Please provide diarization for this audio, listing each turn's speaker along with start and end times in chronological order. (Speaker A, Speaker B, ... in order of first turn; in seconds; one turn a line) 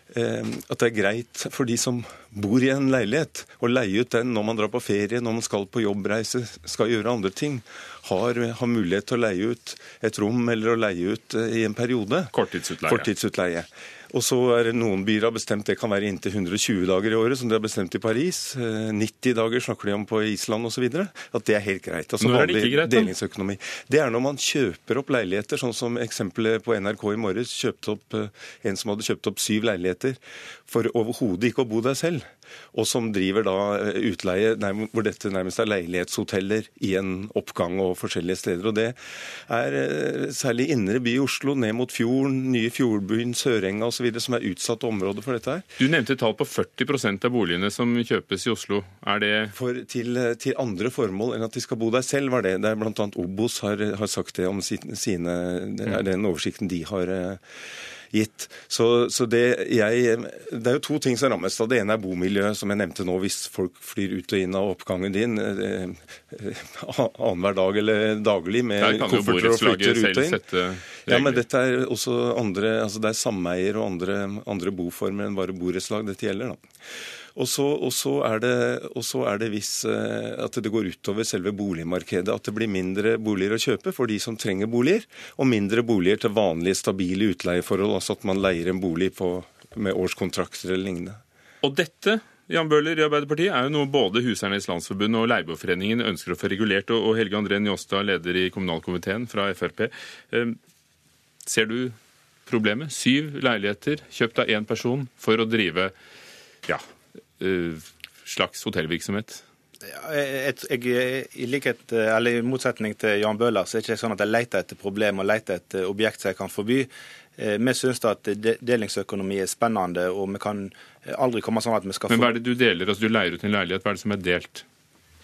Speaker A: 0.1-12.3
Speaker B: 12.3-13.1
Speaker A: 12.9-45.6
Speaker B: 22.2-23.1
Speaker B: 45.8-49.5
Speaker A: 49.5-57.4
Speaker A: 58.1-70.4
Speaker B: 68.8-71.4
Speaker A: 71.1-76.7
Speaker A: 77.4-91.2
Speaker B: 91.6-100.6
Speaker B: 101.5-102.0
Speaker B: 102.5-105.9
Speaker B: 107.4-109.4
Speaker C: 109.8-122.3
Speaker B: 122.1-124.7